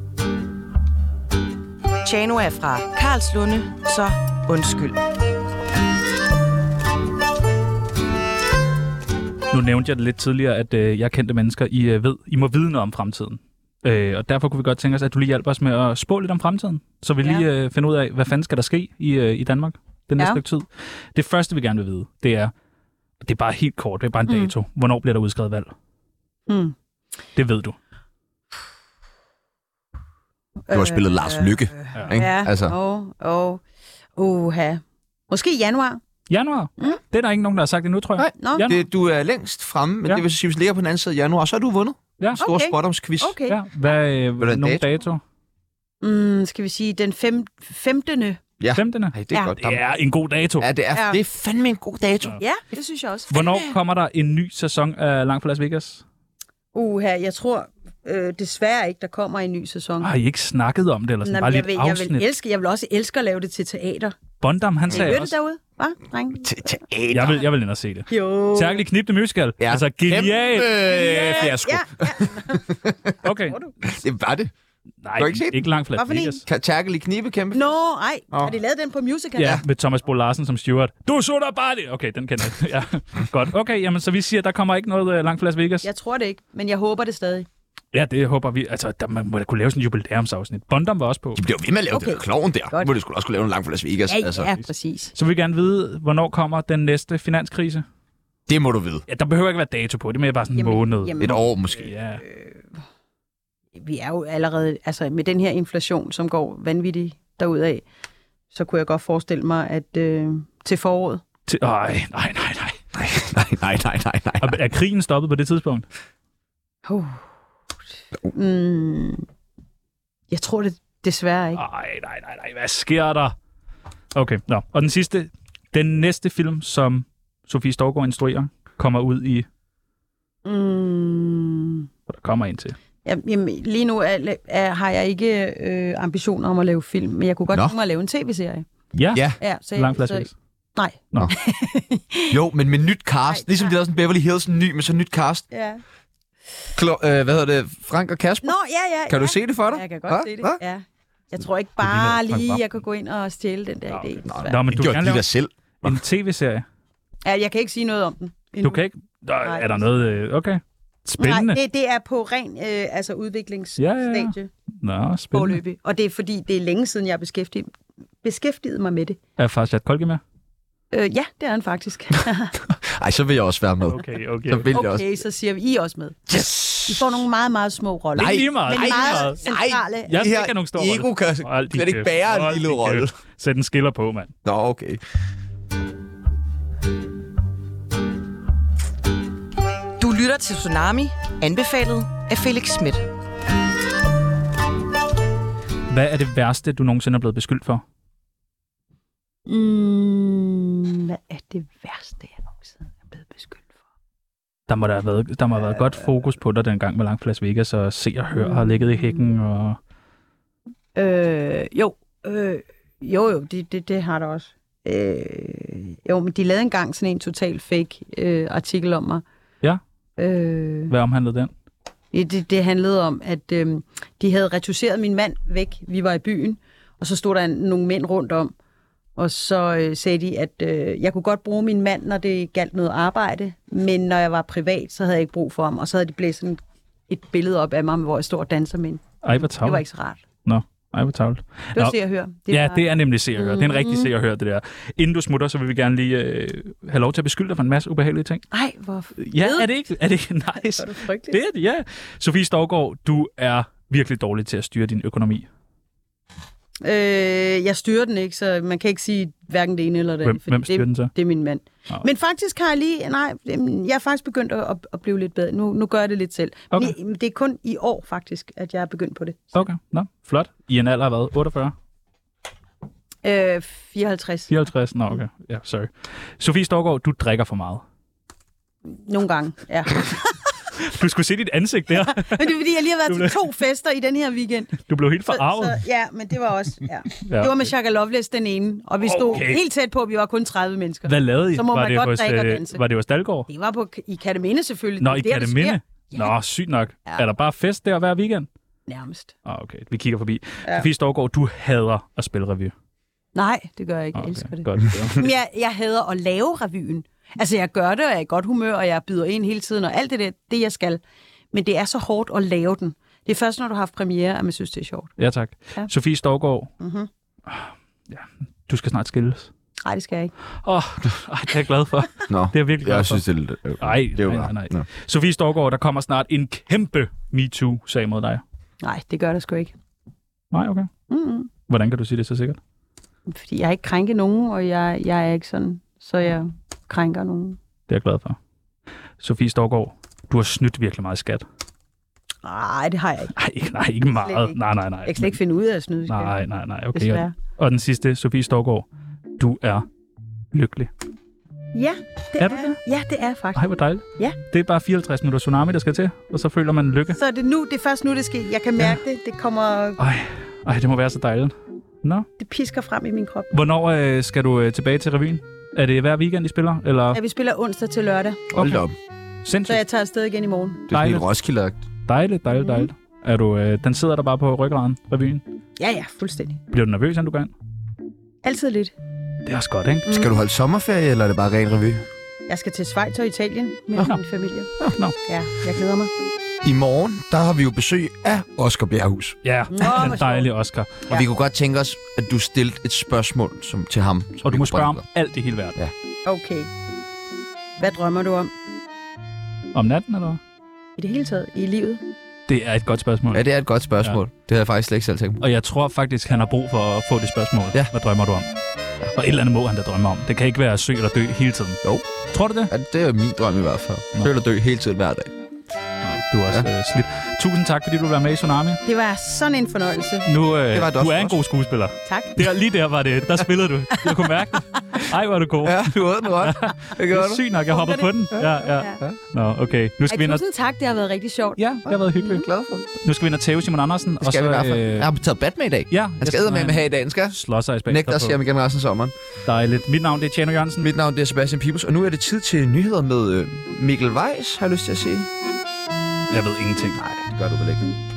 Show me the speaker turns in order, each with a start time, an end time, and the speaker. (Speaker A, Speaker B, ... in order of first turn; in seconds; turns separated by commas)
Speaker A: 2.0-5.0, Speaker B: 9.5-22.5, Speaker B: 23.2-25.7, Speaker C: 24.3-24.5, Speaker C: 26.5-26.7, Speaker B: 27.4-27.8, Speaker C: 30.7-33.6, Speaker D: 30.7-32.7, Speaker C: 34.1-36.0, Speaker B: 36.3-38.8, Speaker D: 38.2-43.4, Speaker C: 38.4-38.7, Speaker C: 42.4-43.6, Speaker B: 43.5-45.2, Speaker D: 44.4-44.9, Speaker C: 46.0-48.4, Speaker D: 48.6-49.8, Speaker B: 48.7-50.7, Speaker D: 50.6-52.4, Speaker C: 50.9-51.2, Speaker C: 52.4-53.3, Speaker B: 53.3-56.0, Speaker D: 53.3-53.7, Speaker C: 56.7-60.1, Speaker B: 60.0-62.3, Speaker C: 61.2-64.2, Speaker B: 64.4-65.3, Speaker D: 64.9-65.2, Speaker C: 64.9-66.8, Speaker D: 66.4-67.4, Speaker B: 67.1-71.6, Speaker C: 68.1-68.8, Speaker D: 69.6-73.1, Speaker C: 70.8-72.8, Speaker B: 73.2-73.6, Speaker D: 73.8-74.5, Speaker B: 75.0-76.4, Speaker D: 75.2-75.7, Speaker C: 75.9-76.4, Speaker D: 76.4-77.6, Speaker C: 77.5-79.6, Speaker B: 79.4-85.9, Speaker C: 85.8-87.5, Speaker B: 87.9-91.4, Speaker D: 91.3-94.5, Speaker C: 91.9-92.9, Speaker C: 94.1-95.1, Speaker B: 95.1-97.8, Speaker D: 98.5-99.0, Speaker B: 99.1-102.2, Speaker C: 100.5-101.5, Speaker D: 101.2-101.9, Speaker C: 102.2-102.7, Speaker C: 103.8-107.8, Speaker C: 108.5-111.2, Speaker B: 111.5-112.8, Speaker D: 112.9-114.6, Speaker B: 114.4-115.8, Speaker C: 116.8-117.2, Speaker C: 118.3-119.2, Speaker C: 120.3-121.6, Speaker B: 121.5-123.3, Speaker B: 124.1-129.4, Speaker C: 130.4-131.9, Speaker B: 132.1-132.8, Speaker C: 133.0-138.7, Speaker B: 138.9-140.3, Speaker D: 139.1-139.4, Speaker C: 139.4-142.3, Speaker D: 142.3-145.5, Speaker C: 143.3-143.7, Speaker C: 145.5-145.8, Speaker D: 146.7-148.6, Speaker C: 148.4-154.6, Speaker D: 149.1-150.6, Speaker B: 152.0-152.6, Speaker B: 153.9-155.3, Speaker D: 154.2-156.0, Speaker B: 155.8-156.6, Speaker C: 157.2-158.8, Speaker B: 158.6-161.6, Speaker C: 159.4-159.9, Speaker C: 161.2-164.5, Speaker B: 163.8-165.6, Speaker C: 165.3-167.7, Speaker C: 168.2-169.2, Speaker B: 169.4-170.2, Speaker C: 170.9-172.6, Speaker D: 172.8-175.2, Speaker B: 173.9-174.7, Speaker C: 174.7-176.2, Speaker D: 176.3-177.2, Speaker C: 176.8-180.2, Speaker D: 178.2-183.1, Speaker B: 178.2-179.4, Speaker B: 180.1-184.3, Speaker D: 184.4-185.0, Speaker A: 190.0-193.1, Speaker B: 195.9-197.8, Speaker C: 199.5-203.7, Speaker B: 204.7-209.8, Speaker C: 205.7-206.0, Speaker C: 208.3-209.2, Speaker C: 210.9-219.2, Speaker C: 220.2-220.9, Speaker B: 220.9-221.5, Speaker C: 222.1-228.5, Speaker C: 229.2-240.2, Speaker B: 239.2-239.8, Speaker B: 240.4-241.9, Speaker C: 241.7-242.8, Speaker B: 242.5-248.4, Speaker C: 243.3-244.1, Speaker C: 248.5-249.7, Speaker B: 249.2-255.4, Speaker C: 250.7-251.4, Speaker C: 256.8-269.5, Speaker B: 260.2-261.1, Speaker B: 269.5-271.7, Speaker C: 273.2-274.5, Speaker B: 274.5-277.8, Speaker C: 278.9-280.5, Speaker B: 280.8-282.5, Speaker C: 281.9-292.8, Speaker B: 283.1-283.5, Speaker B: 284.9-285.8, Speaker B: 287.3-287.6, Speaker B: 289.0-289.6, Speaker B: 291.1-293.5, Speaker C: 293.5-296.3, Speaker B: 295.0-298.5, Speaker C: 298.9-299.3, Speaker B: 299.4-302.7, Speaker C: 303.3-311.0, Speaker B: 304.1-305.3, Speaker C: 311.5-315.1, Speaker B: 315.2-316.7, Speaker C: 316.8-317.1, Speaker B: 317.5-319.5, Speaker C: 319.8-320.3, Speaker B: 320.6-323.2, Speaker D: 322.3-324.8, Speaker B: 323.8-328.4, Speaker C: 328.8-329.7, Speaker B: 330.5-330.9, Speaker C: 331.1-331.5, Speaker B: 331.7-332.6, Speaker C: 333.3-337.6, Speaker B: 337.9-338.4, Speaker B: 339.2-341.4, Speaker C: 342.4-343.3, Speaker B: 343.4-345.4, Speaker C: 344.1-346.3, Speaker B: 346.1-348.9, Speaker C: 346.9-347.3, Speaker B: 349.4-349.9, Speaker B: 350.5-350.9, Speaker C: 351.7-354.4, Speaker B: 352.4-352.8, Speaker B: 353.6-357.2, Speaker C: 357.1-360.0, Speaker B: 360.0-362.3, Speaker C: 362.4-363.5, Speaker B: 363.5-367.2, Speaker C: 367.1-368.4, Speaker D: 368.5-368.9, Speaker B: 368.6-368.8, Speaker B: 369.4-369.8, Speaker C: 369.6-370.8, Speaker D: 370.9-371.8, Speaker B: 370.9-371.3, Speaker B: 372.1-375.4, Speaker C: 372.6-372.9, Speaker C: 375.8-376.6, Speaker B: 376.7-377.5, Speaker C: 378.4-378.9, Speaker B: 379.4-380.1, Speaker C: 380.0-380.3, Speaker D: 380.1-382.1, Speaker C: 382.5-384.7, Speaker C: 385.2-386.1, Speaker D: 386.6-389.4, Speaker B: 389.4-390.9, Speaker C: 389.7-390.5, Speaker D: 391.1-395.0, Speaker B: 394.4-395.8, Speaker C: 396.2-396.7, Speaker C: 397.8-398.5, Speaker B: 399.7-400.4, Speaker C: 401.0-402.0, Speaker B: 402.5-403.4, Speaker D: 403.3-405.4, Speaker B: 405.4-408.5, Speaker B: 409.1-412.7, Speaker D: 412.7-415.3, Speaker B: 416.1-418.8, Speaker C: 418.9-420.3, Speaker B: 420.2-430.4, Speaker D: 420.7-421.4, Speaker C: 422.1-422.4, Speaker D: 425.6-427.4, Speaker C: 427.7-428.1, Speaker D: 428.3-429.2, Speaker C: 428.6-429.0, Speaker C: 430.1-431.6, Speaker B: 431.6-432.5, Speaker D: 431.9-432.9, Speaker C: 432.2-432.4, Speaker B: 433.0-435.1, Speaker D: 434.2-437.4, Speaker B: 435.9-438.4, Speaker D: 437.9-439.1, Speaker B: 439.4-440.9, Speaker D: 440.8-445.3, Speaker B: 446.3-447.0, Speaker D: 446.9-447.9